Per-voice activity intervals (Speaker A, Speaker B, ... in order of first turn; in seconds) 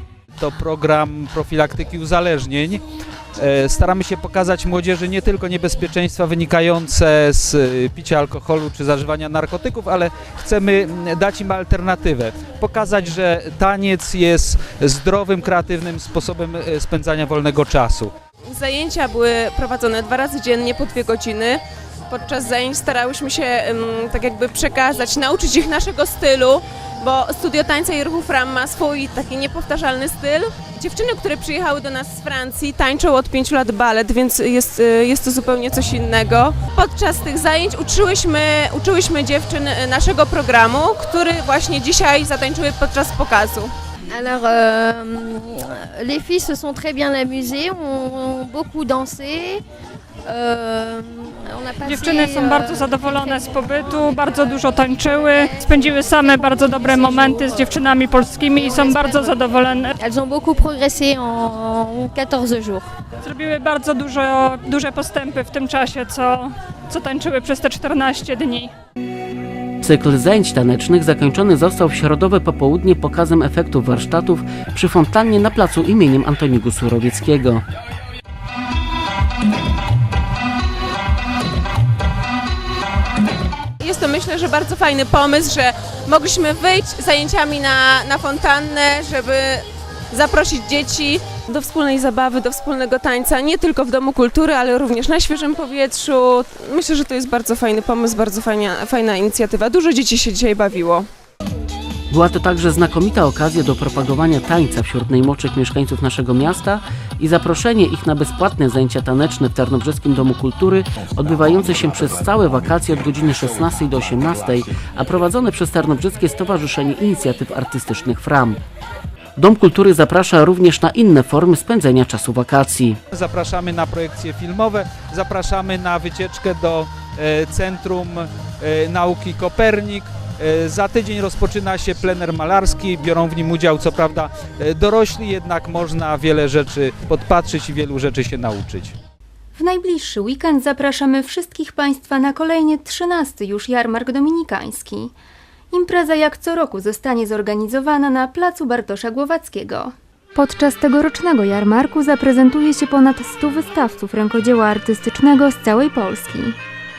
Speaker A: 0.4-2.8, 3.4-18.1, 123.1-138.9
Speaker B: 18.5-43.7, 83.8-101.1
Speaker C: 46.4-49.3, 50.4-52.3, 60.9-61.9
Speaker D: 51.8-60.0, 63.2-68.7
Speaker E: 69.8-77.6, 102.1-118.6, 119.4-123.0
Speaker F: 139.5-145.1, 145.7-156.6